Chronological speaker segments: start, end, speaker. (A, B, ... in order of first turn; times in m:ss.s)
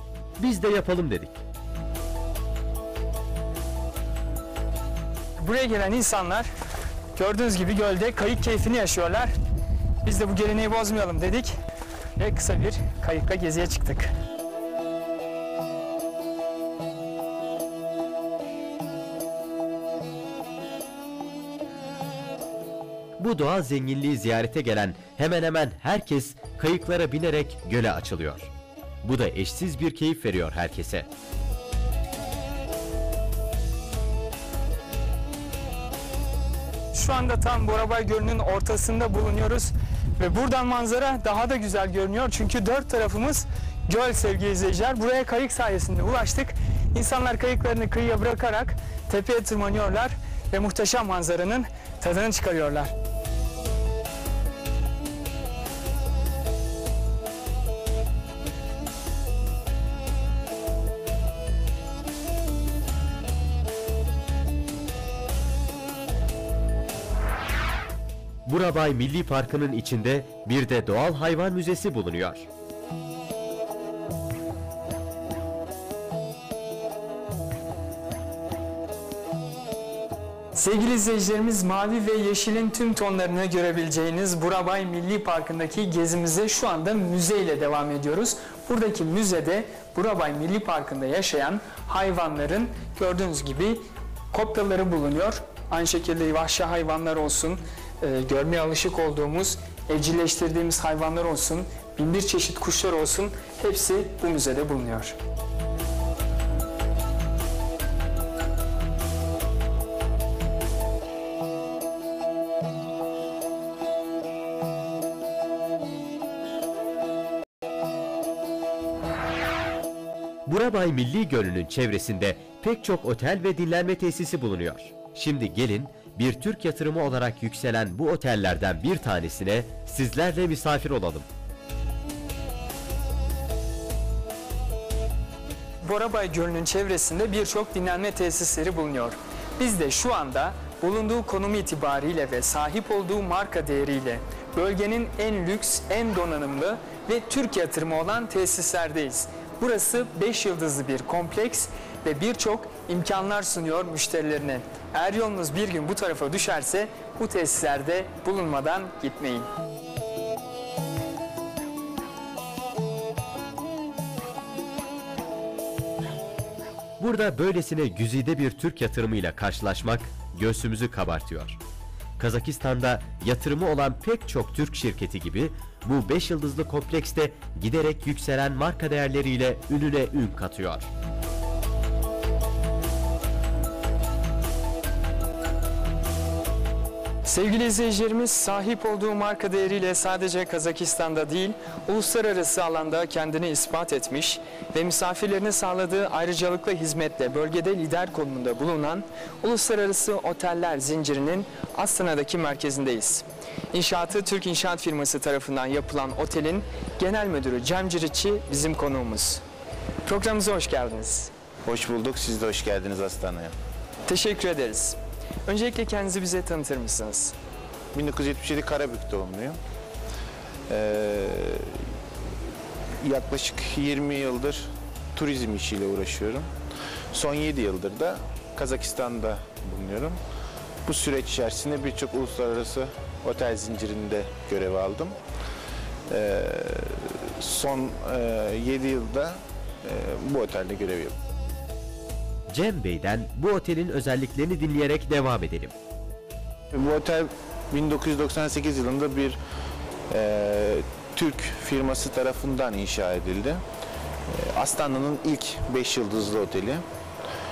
0:00.4-0:01.4 A
0:05.4-0:06.5 B
0:07.1-0:09.3 B
0:10.0-0:11.6 B
0:12.2-0:14.1 B
0:23.2-0:28.5 A
0:29.0-0:31.1 A
0:36.9-0:52.9 B
1:08.4-1:12.5 A
1:20.5-1:45.2 B
2:00.4-2:11.3 A
2:15.8-2:39.5 B
2:47.0-2:51.6 A
2:52.2-3:00.9 A
3:07.2-3:29.4 B
3:30.0-3:31.3 B
3:31.6-3:33.5 C
3:34.1-3:37.3 B
3:37.9-3:39.6 C
3:40.7-3:41.8 C
3:43.0-3:46.5 C
3:47.1-3:50.2 C
3:50.8-3:55.2 C
3:56.1-4:01.1 C
4:02.5-4:05.7 A
4:06.7-4:09.4 C
4:10.1-4:13.6 C
4:14.3-4:16.8 C